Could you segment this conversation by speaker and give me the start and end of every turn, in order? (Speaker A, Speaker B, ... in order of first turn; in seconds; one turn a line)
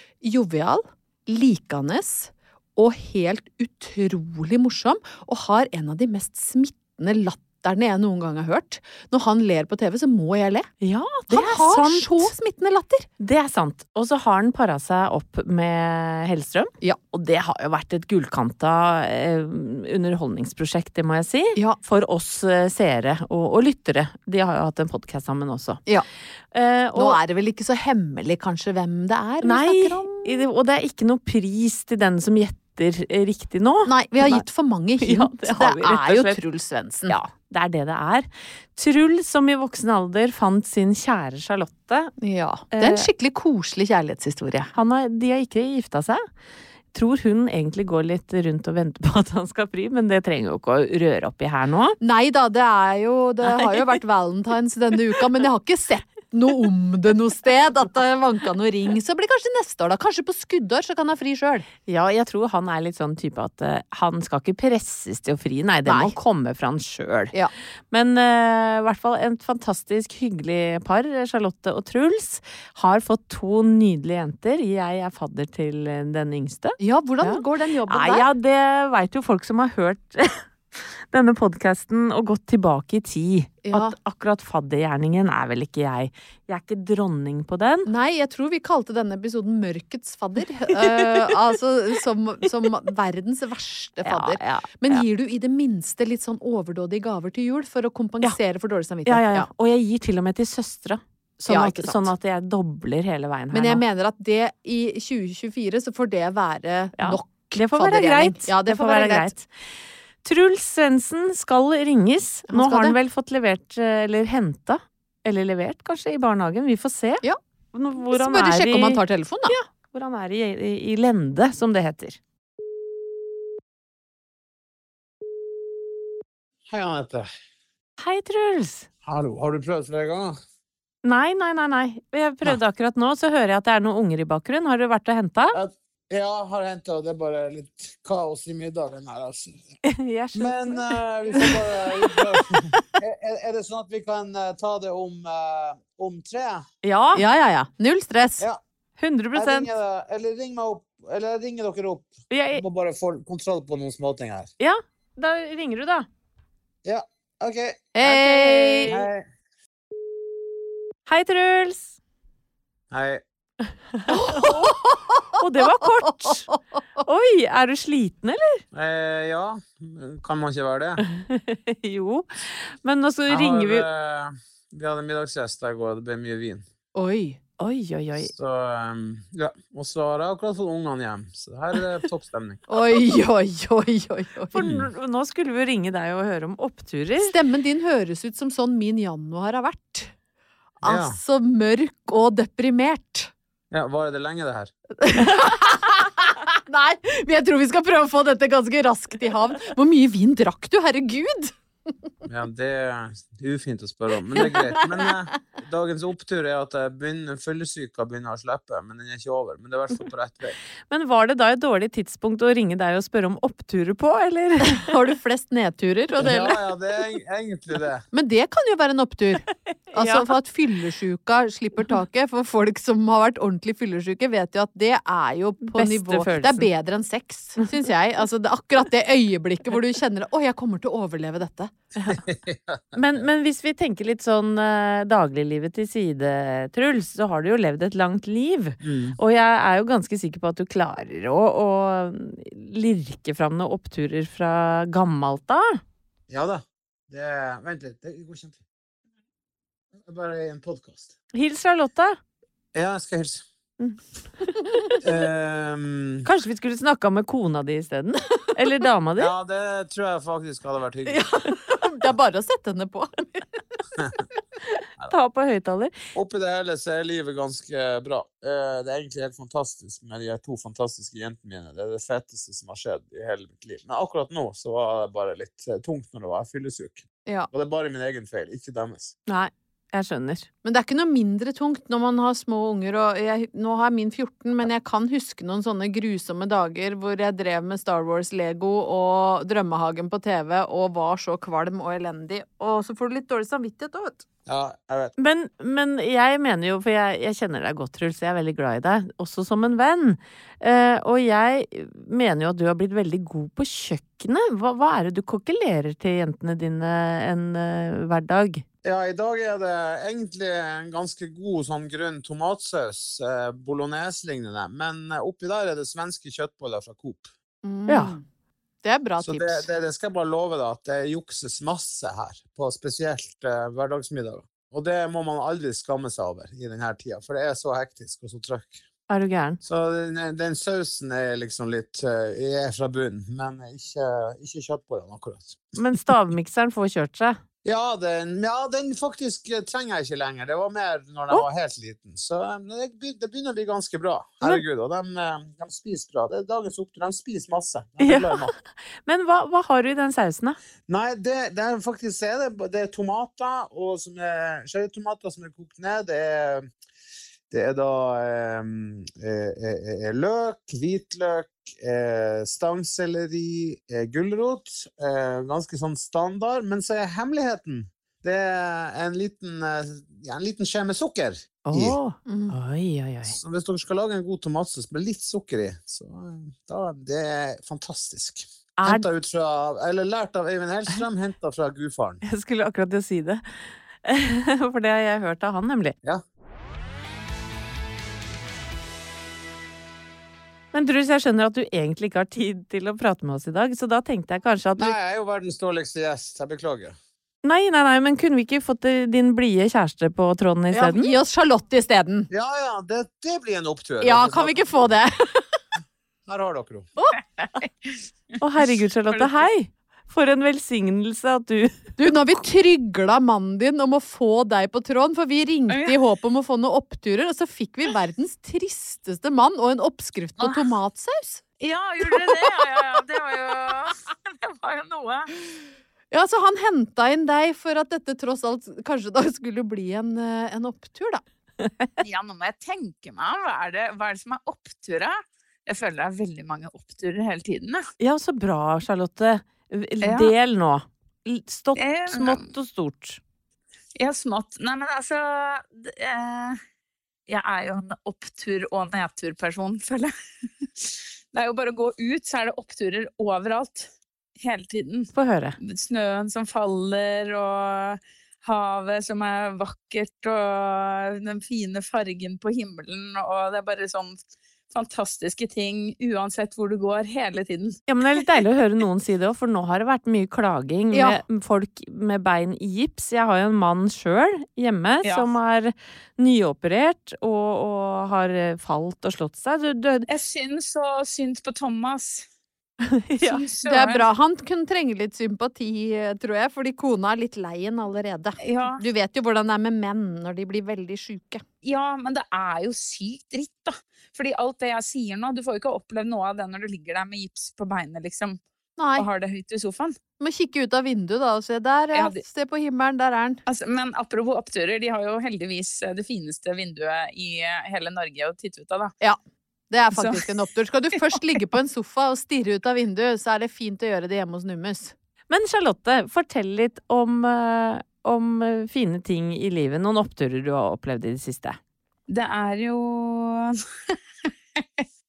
Speaker A: 0.2-10.7
Speaker B: 10.8-12.3
Speaker A: 11.3-13.1
Speaker B: 13.2-25.8
Speaker B: 26.5-27.2
Speaker A: 26.9-30.5
Speaker B: 29.4-34.4
Speaker A: 33.9-37.2
Speaker B: 35.0-36.4
Speaker B: 37.1-42.1
Speaker A: 42.2-44.7
Speaker B: 42.7-43.1
Speaker B: 44.7-46.2
Speaker B: 46.9-52.0
Speaker A: 52.0-61.7
Speaker B: 61.8-67.3
Speaker A: 65.8-66.1
Speaker B: 67.9-87.9
Speaker A: 76.8-78.3
Speaker A: 83.6-83.9
Speaker A: 87.9-99.5
Speaker B: 90.8-91.2
Speaker B: 94.0-95.0
Speaker B: 99.0-103.8
Speaker A: 101.5-102.1
Speaker A: 103.5-109.3
Speaker B: 107.0-109.5
Speaker B: 110.2-122.2
Speaker A: 112.5-113.0
Speaker A: 118.0-119.5
Speaker C: 126.7-127.3
Speaker B: 128.0-128.9
Speaker C: 129.0-130.4
Speaker B: 131.0-135.6
Speaker C: 135.5-139.6
Speaker B: 139.8-141.0
Speaker C: 140.3-146.6
Speaker B: 146.8-147.2
Speaker A: 147.1-148.4
Speaker B: 149.0-149.7
Speaker C: 149.3-154.5
Speaker B: 152.3-152.6
Speaker B: 154.6-156.1
Speaker C: 156.8-157.8
Speaker A: 157.9-158.9
Speaker B: 158.0-159.1
Speaker C: 158.9-159.2
Speaker B: 161.1-161.9
Speaker C: 162.9-163.2
Speaker B: 163.9-164.8
Speaker A: 164.1-165.2
Speaker B: 165.4-166.4
Speaker A: 166.2-166.6
Speaker B: 167.0-168.6
Speaker C: 168.7-171.0
Speaker B: 171.0-173.8
Speaker C: 173.3-176.6
Speaker A: 176.9-177.4
Speaker B: 177.6-178.3
Speaker C: 178.2-182.6
Speaker A: 182.7-184.7
Speaker B: 184.5-187.3
Speaker C: 184.6-184.9
Speaker A: 187.2-190.1
Speaker A: 190.8-193.3
Speaker C: 190.8-191.2
Speaker C: 193.7-194.7
Speaker A: 195.0-201.5
Speaker C: 202.2-210.6
Speaker A: 204.3-204.8
Speaker B: 210.9-214.8
Speaker A: 214.6-216.6
Speaker C: 216.2-218.0
Speaker A: 218.1-231.7
Speaker B: 219.5-220.3
Speaker B: 225.6-226.7
Speaker B: 231.9-232.2
Speaker C: 232.1-233.0
Speaker B: 232.9-245.8
Speaker C: 238.8-239.2
Speaker C: 246.3-248.6
Speaker C: 250.0-251.1
Speaker B: 251.3-252.2
Speaker C: 252.7-253.4
Speaker B: 253.8-254.9
Speaker C: 255.0-256.3
Speaker B: 256.2-259.3
Speaker C: 259.2-261.2
Speaker A: 261.1-263.8
Speaker B: 265.1-265.9
Speaker C: 266.1-279.1
Speaker B: 279.3-280.4
Speaker A: 280.6-294.2
Speaker C: 294.5-295.1
Speaker B: 295.2-308.6
Speaker C: 308.8-317.3
Speaker A: 317.6-318.2
Speaker B: 317.9-318.1
Speaker A: 318.8-319.7
Speaker C: 319.2-328.8
Speaker B: 329.1-329.6
Speaker C: 329.6-335.9
Speaker B: 335.7-337.4
Speaker C: 337.6-348.5
Speaker B: 348.0-350.6
Speaker C: 350.9-356.6
Speaker C: 357.5-372.0
Speaker B: 371.6-373.4
Speaker A: 372.2-372.6
Speaker C: 373.2-382.2
Speaker B: 378.8-379.1
Speaker B: 382.2-385.9
Speaker B: 390.7-394.9
Speaker C: 394.8-396.9
Speaker B: 397.4-401.1
Speaker A: 400.7-402.3
Speaker C: 402.3-404.9
Speaker A: 404.0-405.6
Speaker C: 406.3-406.9
Speaker D: 407.4-408.4
Speaker B: 408.4-411.9
Speaker D: 409.1-409.4
Speaker A: 412.0-421.4
Speaker D: 415.7-416.0
Speaker D: 420.4-420.7
Speaker D: 421.6-425.3
Speaker A: 426.1-431.2
Speaker D: 432.0-437.8
Speaker B: 438.0-443.2
Speaker D: 440.0-440.3
Speaker D: 441.8-442.4
Speaker D: 444.0-446.6
Speaker D: 447.3-450.1
Speaker D: 450.8-464.2
Speaker B: 455.1-455.6
Speaker D: 464.7-467.8
Speaker B: 467.9-480.1
Speaker A: 470.9-471.2
Speaker D: 475.0-475.3
Speaker D: 480.1-482.3
Speaker B: 482.8-483.4
Speaker D: 483.2-484.1
Speaker A: 483.6-491.4
Speaker D: 488.4-488.8
Speaker D: 491.6-498.4
Speaker A: 498.8-499.1
Speaker D: 498.9-500.0
Speaker A: 500.2-503.4
Speaker D: 501.9-502.2
Speaker D: 503.5-508.9
Speaker A: 509.7-514.9
Speaker D: 509.9-510.4
Speaker B: 515.3-521.6
Speaker D: 522.1-524.0
Speaker D: 524.6-524.8